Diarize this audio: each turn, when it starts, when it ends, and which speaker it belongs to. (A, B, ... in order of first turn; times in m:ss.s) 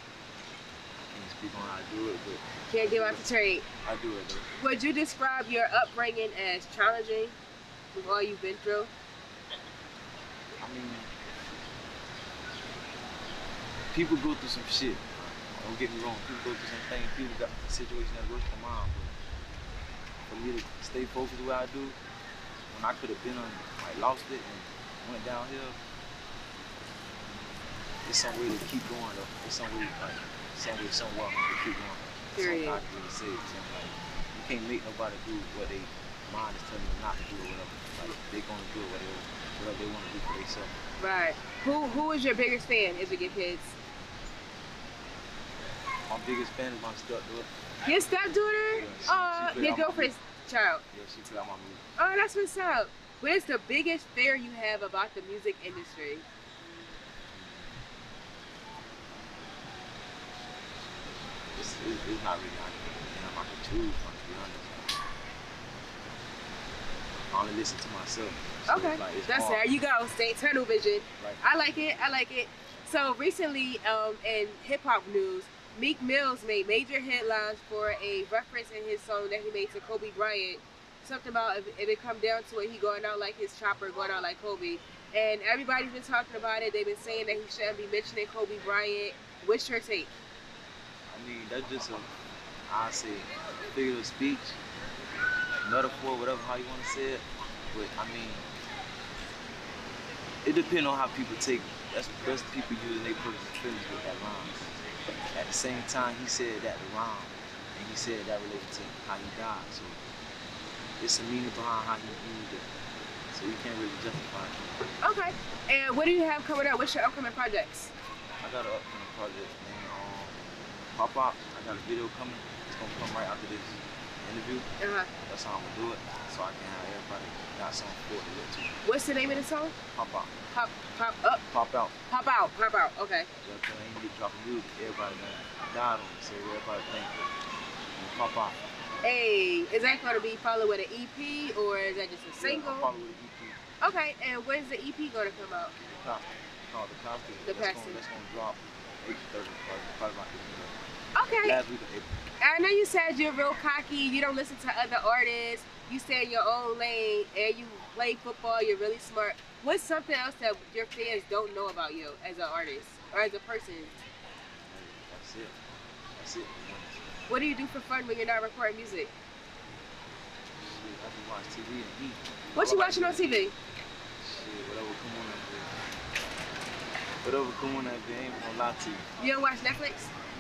0:01.0-0:03.3 A
0:02.7-0:03.7 B
0:03.8-0:04.5 A
0:04.5-0:07.4 B
0:07.9-0:08.9 B
0:10.6-0:11.1 A
0:13.9-0:19.1 A
0:20.3-0:22.0 A
0:22.7-0:25.8 A
0:28.0-0:40.7 A
0:32.4-0:32.8 B
0:41.0-0:43.8 B
0:46.1-0:47.5 A
0:47.8-0:50.8 B
0:48.7-0:50.2 A
0:50.9-0:51.8 A
0:52.0-0:56.2 B
0:57.3-0:57.8 A
1:01.5-1:05.0 A
1:07.3-1:09.6 A
1:08.7-1:30.1 B
1:31.1-1:32.1 A
1:32.7-1:34.6 A
1:35.6-1:38.5 A
1:40.4-1:44.7 A
1:45.3-1:50.0 A
1:51.0-1:52.7 A
1:53.3-1:54.8 A
1:55.0-1:57.9 B
1:58.4-2:04.7 A
2:04.8-2:05.1 B
2:05.3-2:10.3 A
2:08.8-2:09.8 B
2:10.5-2:11.4 B
2:11.5-2:12.0 A
2:12.1-2:13.3 B
2:13.4-2:17.1 A
2:18.0-2:18.6 A
2:19.0-2:22.9 B
2:22.4-2:23.6 A
2:23.8-2:25.7 B
2:25.8-2:30.9 A
2:27.4-2:28.0 B
2:31.2-2:31.6 B
2:31.4-2:32.1 A
2:32.4-2:43.9 B
2:44.5-2:45.6 A
2:46.2-2:47.1 A
2:47.3-2:49.1 B
2:50.6-2:53.5 A
2:52.6-2:53.5 B
2:54.2-2:55.7 A
2:57.2-2:59.0 A
2:59.2-3:00.1 B